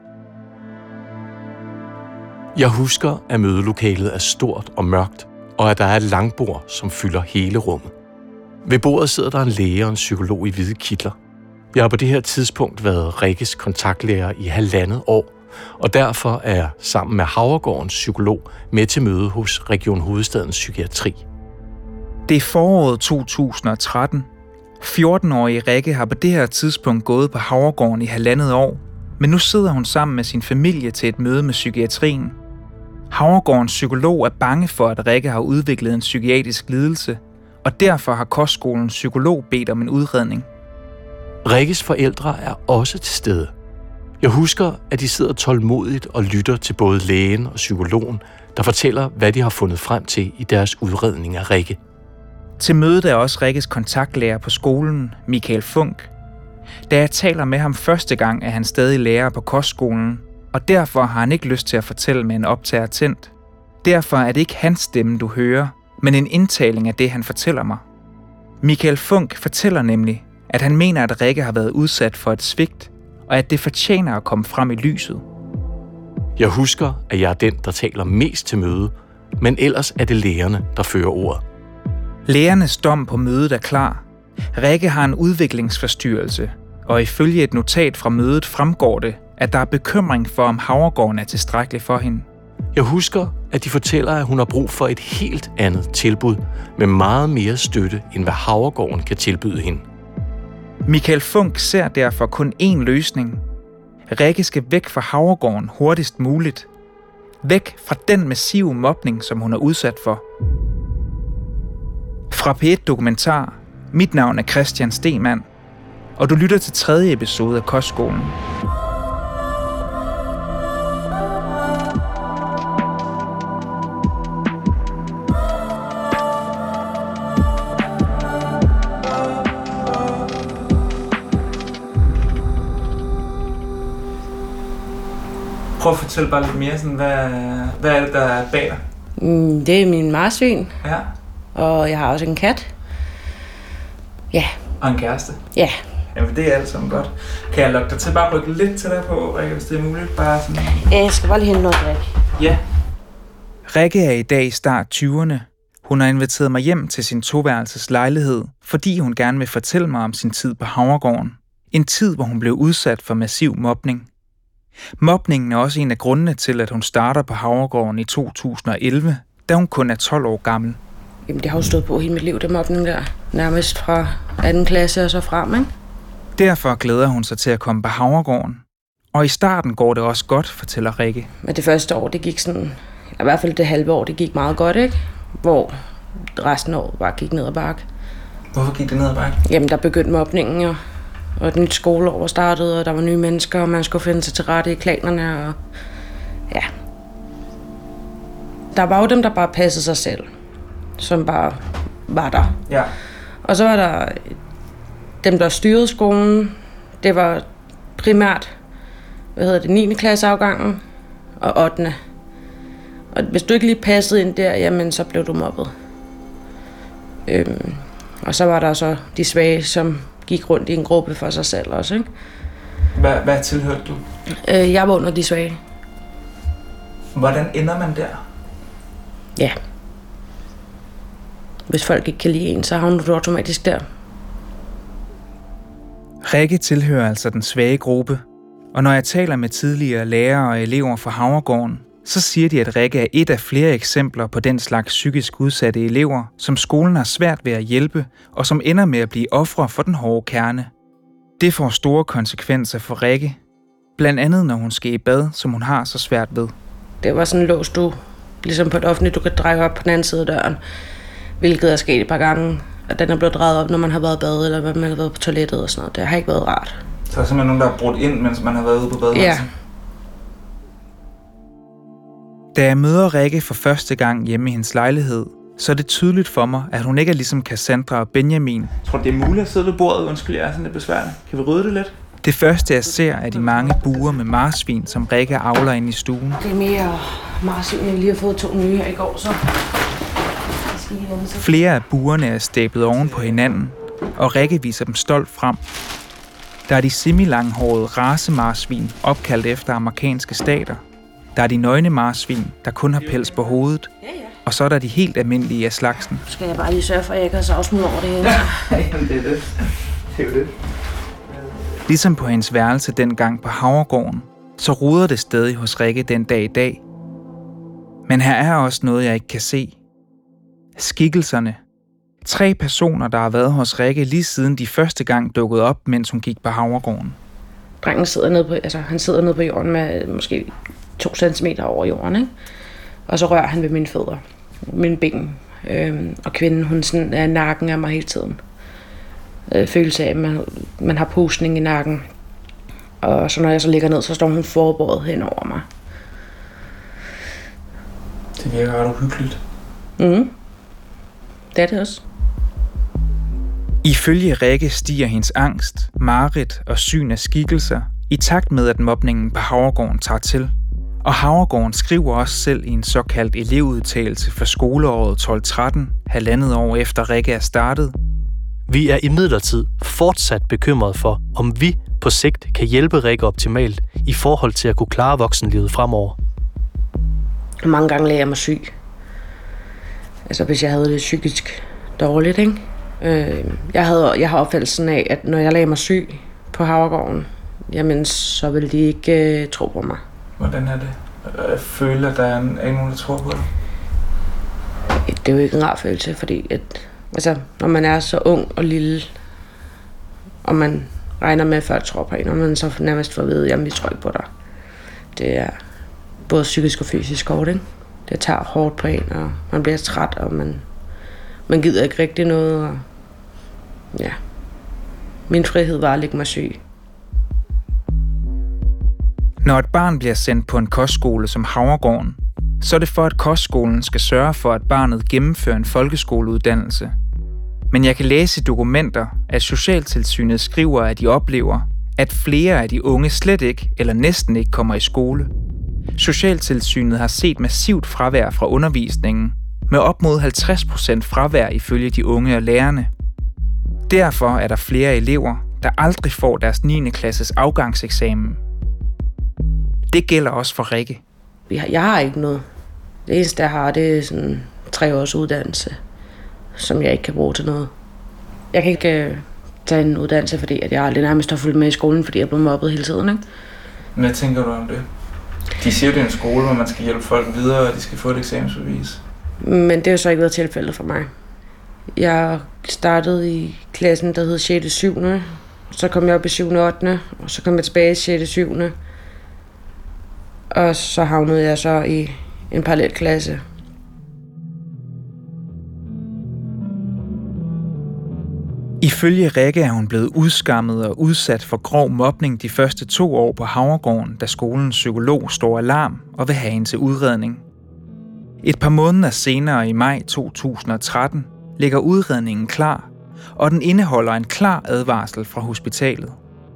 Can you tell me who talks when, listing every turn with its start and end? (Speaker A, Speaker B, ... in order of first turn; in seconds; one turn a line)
Speaker A: 2.5-7.9
Speaker A: 8.6-11.2
Speaker A: 11.7-21.2
Speaker B: 22.3-24.3
Speaker B: 24.8-32.4
Speaker B: 33.1-40.5
Speaker A: 41.4-43.5
Speaker A: 44.2-51.8
Speaker B: 52.6-56.1
Speaker B: 56.9-63.3
Speaker B: 63.8-67.8
Speaker B: 68.6-75.2
Speaker A: 76.4-81.4
Speaker B: 82.3-84.0
Speaker B: 84.5-92.3
Speaker A: 92.7-99.8
Speaker B: 100.8-103.4
Speaker B: 104.1-106.7
Speaker B: 107.4-110.2
Speaker B: 112.3-115.5
Speaker B: 116.2-118.3
Speaker B: 135.8-138.8
Speaker C: 139.2-140.7
Speaker B: 140.8-141.1
Speaker C: 141.5-142.7
Speaker B: 144.8-145.4
Speaker B: 146.1-150.9
Speaker C: 150.9-152.1
Speaker B: 152.3-152.6
Speaker B: 153.7-164.1
Speaker B: 165.0-170.8
Speaker C: 171.3-175.7
Speaker B: 176.3-178.6
Speaker B: 179.1-181.3
Speaker C: 181.4-185.7
Speaker C: 186.3-187.8
Speaker B: 188.5-189.4
Speaker C: 189.4-190.8
Speaker C: 191.4-195.6
Speaker C: 198.7-200.3
Speaker C: 201.0-202.6
Speaker B: 202.7-202.9
Speaker C: 203.4-204.3
Speaker C: 205.2-207.4
Speaker C: 208.0-208.5
Speaker C: 209.3-210.8
Speaker C: 211.4-211.9
Speaker C: 213.1-215.7
Speaker C: 217.3-222.1
Speaker B: 222.9-224.0
Speaker C: 224.4-225.6
Speaker B: 227.1-228.2
Speaker C: 231.7-233.8
Speaker B: 236.2-238.2
Speaker B: 238.7-250.7
Speaker B: 251.4-253.4
Speaker B: 254.0-256.5
Speaker C: 257.0-260.6
Speaker C: 261.4-266.8
Speaker B: 267.1-269.5
Speaker C: 269.1-269.5
Speaker B: 272.5-286.4
Speaker C: 286.4-289.4
Speaker C: 290.6-291.5
Speaker B: 291.4-295.6
Speaker B: 296.7-300.8
Speaker B: 301.3-303.9
Speaker B: 304.4-306.2
Speaker C: 306.2-308.6
Speaker B: 308.2-310.5
Speaker B: 311.9-316.8
Speaker B: 318.1-319.8
Speaker B: 320.8-321.6
Speaker B: 322.2-327.2
Speaker C: 327.8-332.3
Speaker C: 333.1-338.4
Speaker C: 339.5-342.0
Speaker C: 343.0-345.6
Speaker B: 348.4-349.4
Speaker C: 350.0-350.3
Speaker C: 351.5-352.0
Speaker B: 353.8-360.5
Speaker B: 361.0-367.9
Speaker D: 368.7-376.2
Speaker C: 377.6-378.7
Speaker C: 380.3-390.0
Speaker B: 390.4-393.5
Speaker C: 395.0-399.1
Speaker C: 400.4-404.3
Speaker C: 405.1-405.5
Speaker C: 406.3-410.6
Speaker C: 411.5-412.8
Speaker C: 415.3-416.6
Speaker B: 419.4-426.9
Speaker B: 427.7-435.3
Speaker B: 436.0-442.9
Speaker B: 443.9-448.4
Speaker B: 449.9-451.0
Speaker C: 451.5-452.4
Speaker C: 453.1-455.8
Speaker C: 456.6-457.7
Speaker C: 458.5-463.2
Speaker B: 463.9-464.8
Speaker B: 465.6-469.0
Speaker C: 469.4-471.1
Speaker C: 471.9-478.7
Speaker C: 480.5-483.4
Speaker B: 488.8-497.4
Speaker B: 498.4-506.2